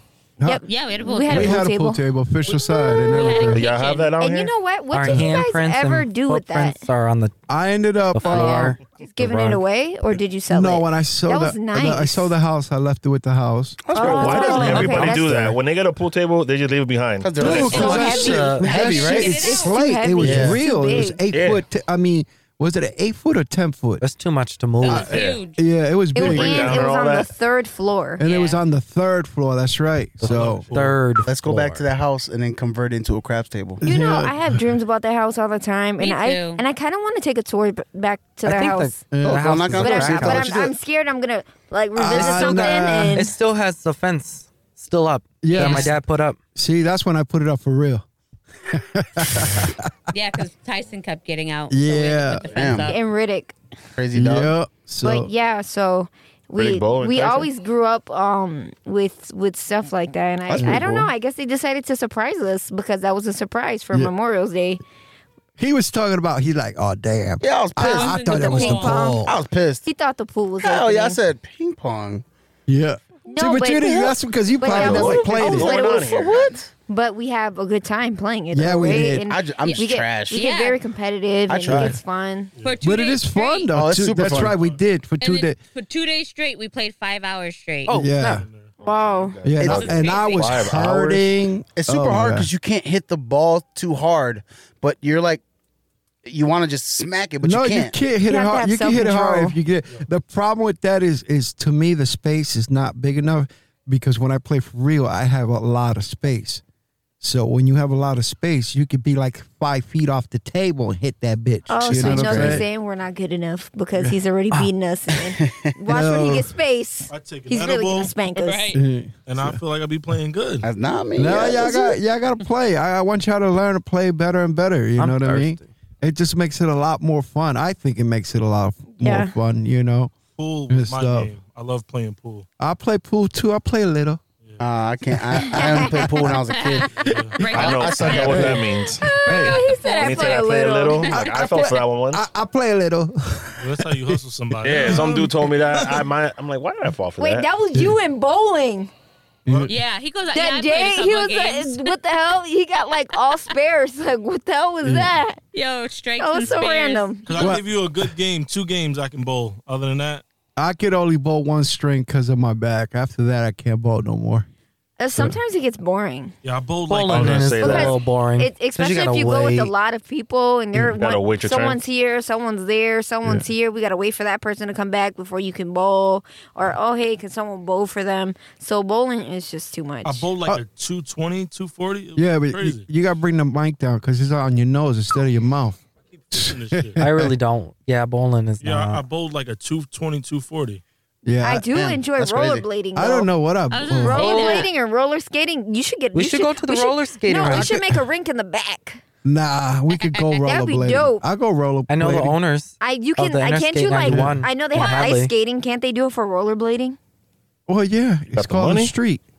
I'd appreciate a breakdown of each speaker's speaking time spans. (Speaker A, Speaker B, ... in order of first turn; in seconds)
Speaker A: 0.4-2.0, 2.7-3.3, 4.2-6.8, 8.3-12.3, 13.9-15.3, 17.6-21.2, 26.1-28.2, 33.8-39.1, 39.7-43.4, 52.9-53.5, 55.0-64.8, 68.2-69.3, 69.8-71.2, 73.3-76.3, 76.9-82.5, 88.8-89.5, 98.2-99.5, 111.7-118.7, 129.0-129.3, 135.5-136.0, 138.9-141.8, 147.2-148.9, 150.3-155.4, 156.2-157.3, 165.0-166.3, 167.6-180.3, 191.4-193.3, 193.9-199.0, 200.4-201.2, 202.8-207.0
Speaker B: 0.7-1.6, 2.9-4.1, 17.5-19.8, 24.9-25.6, 28.2-28.6, 36.0-36.6, 45.5-45.9, 50.1-53.0, 67.8-69.0, 79.7-80.8, 82.6-83.7, 85.2-87.9, 89.7-90.5, 118.3-118.8, 136.4-141.7, 149.7-152.0, 155.5-157.2, 193.7-194.7
Speaker C: 1.3-3.7, 7.5-8.8, 10.5-15.6, 17.4-24.0, 25.6-26.8, 28.2-30.6, 33.8-34.7, 39.1-39.8, 42.0-43.3, 45.4-46.0, 46.5-48.0, 48.7-49.9, 51.7-52.5, 54.1-55.3, 60.6-61.1, 65.6-69.3, 72.7-75.8, 78.5-79.3, 81.7-82.0, 82.8-85.6, 88.0-88.4, 89.4-92.5, 97.4-106.6, 107.2-112.7, 114.0-114.7, 115.9-116.5, 118.7-119.6, 121.2-130.2, 130.7-131.3, 132.6-134.2, 136.0-136.3, 137.4-139.7, 141.0-144.1, 149.5-149.7, 154.8-155.2, 157.4-157.8, 160.6-164.5, 182.2-185.8, 186.3-187.3, 191.2-191.7, 193.0-194.4, 197.5-198.0, 199.2-202.4, 204.1-204.4, 207.7-209.2
Speaker D: 3.4-4.5, 13.9-17.8, 21.3-21.6, 24.9-25.4, 26.2-27.3, 56.5-57.5, 74.7-76.5, 88.8-91.2, 137.5-139.0, 139.9-142.2, 144.6-147.5, 167.1-167.9, 171.0-171.8, 208.3-208.9
Speaker E: 4.9-7.3, 8.1-9.4, 17.4-18.7, 24.0-25.2, 30.2-31.9, 38.5-40.5, 42.1-46.4, 87.9-88.5, 125.0-125.7, 166.9-169.7, 187.0-189.0, 196.2-197.7, 201.9-205.3
Speaker F: 13.9-15.3, 17.2-19.4, 20.2-20.6, 31.2-33.8, 39.2-40.7, 52.5-52.9, 54.0-54.5, 60.5-60.9, 67.4-68.2, 69.2-69.9, 70.6-72.2, 74.7-76.7, 79.3-80.5, 81.5-82.0, 83.7-84.5, 89.6-90.5, 91.8-95.4, 96.2-98.0, 111.8-112.7, 115.3-115.7, 120.6-121.9, 134.6-137.0, 137.6-138.7, 191.7-192.7
Speaker G: 30.2-31.0, 84.2-84.8, 88.2-88.7, 117.1-118.1, 119.3-120.7, 130.3-132.5, 137.0-137.6, 143.6-146.1, 157.2-160.2, 166.4-167.8, 180.0-182.9, 186.1-187.0, 188.6-190.8